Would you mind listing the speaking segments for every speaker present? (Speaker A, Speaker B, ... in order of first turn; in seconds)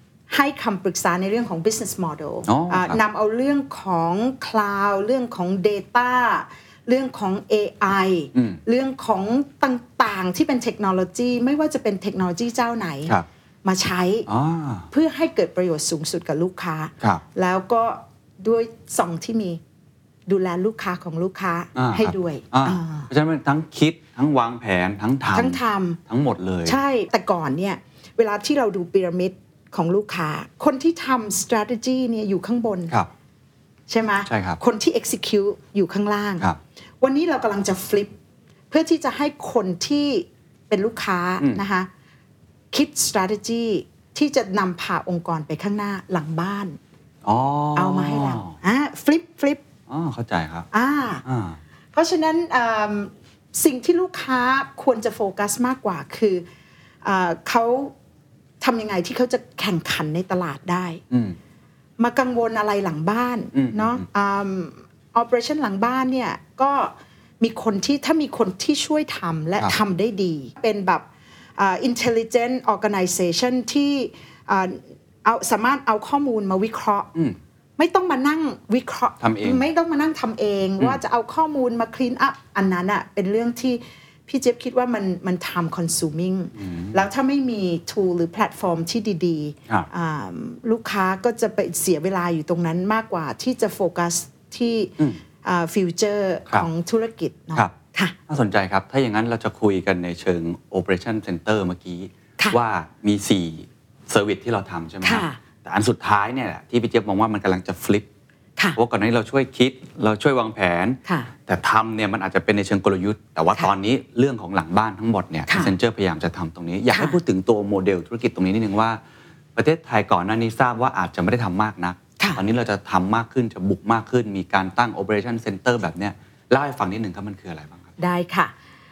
Speaker A: 0.3-14.3, 14.9-19.6, 20.3-23.1, 25.3-26.0, 26.6-32.9, 33.9-36.4, 37.0-38.1, 38.7-41.9, 42.7-46.8, 47.7-49.6, 50.7-51.2, 51.9-56.4, 57.0-57.9, 58.6-61.0, 62.0-71.0, 71.6-77.1, 77.8-98.2, 105.0-105.4, 111.0-111.3, 115.5-115.7, 116.9-117.2, 128.0-128.5
Speaker B: 2.4-3.0, 8.3-8.6, 14.3-14.9, 21.7-26.8, 34.3-34.6, 47.2-48.5, 49.9-50.7, 51.2-51.6, 61.1-61.4, 63.5-64.0, 79.2-79.6, 86.5-87.0, 98.3-108.1, 108.7-119.0, 119.5-127.9